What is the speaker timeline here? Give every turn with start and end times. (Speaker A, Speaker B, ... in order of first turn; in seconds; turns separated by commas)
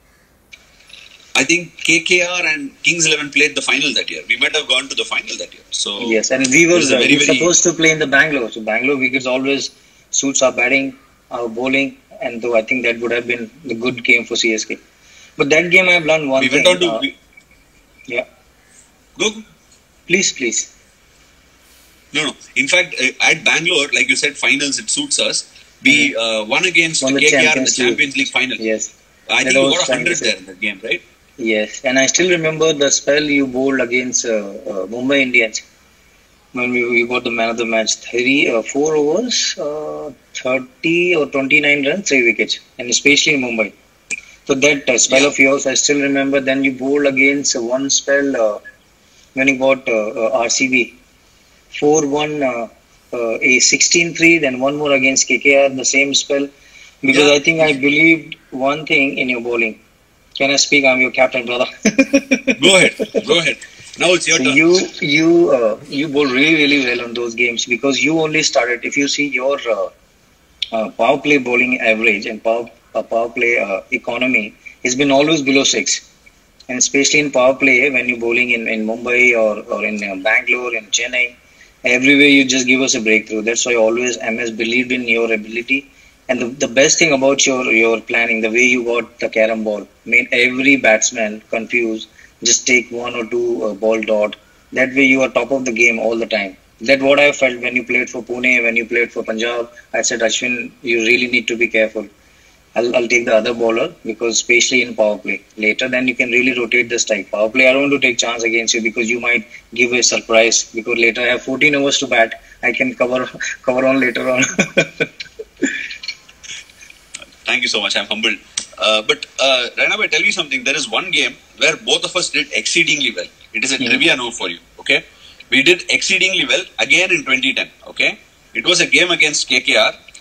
Speaker A: 1.4-6.2, Speaker B: 6.0-14.8, Speaker A: 6.7-7.5, Speaker B: 15.4-17.0, Speaker A: 16.4-17.1, Speaker A: 19.1-19.4, Speaker B: 20.1-20.7, Speaker A: 22.1-28.6, Speaker B: 25.9-26.1, Speaker B: 27.0-28.0, Speaker B: 28.6-28.9, Speaker A: 29.3-31.0, Speaker B: 29.4-30.3, Speaker B: 31.4-35.6, Speaker B: 36.5-43.7, Speaker B: 44.5-48.6, Speaker B: 49.4-50.9, Speaker B: 51.7-56.5, Speaker B: 57.0-59.8, Speaker A: 57.1-57.4, Speaker B: 60.4-63.2, Speaker A: 62.6-64.6, Speaker B: 64.3-69.9, Speaker B: 70.7-76.0, Speaker B: 76.7-102.1, Speaker B: 102.8-115.1, Speaker A: 117.4-129.9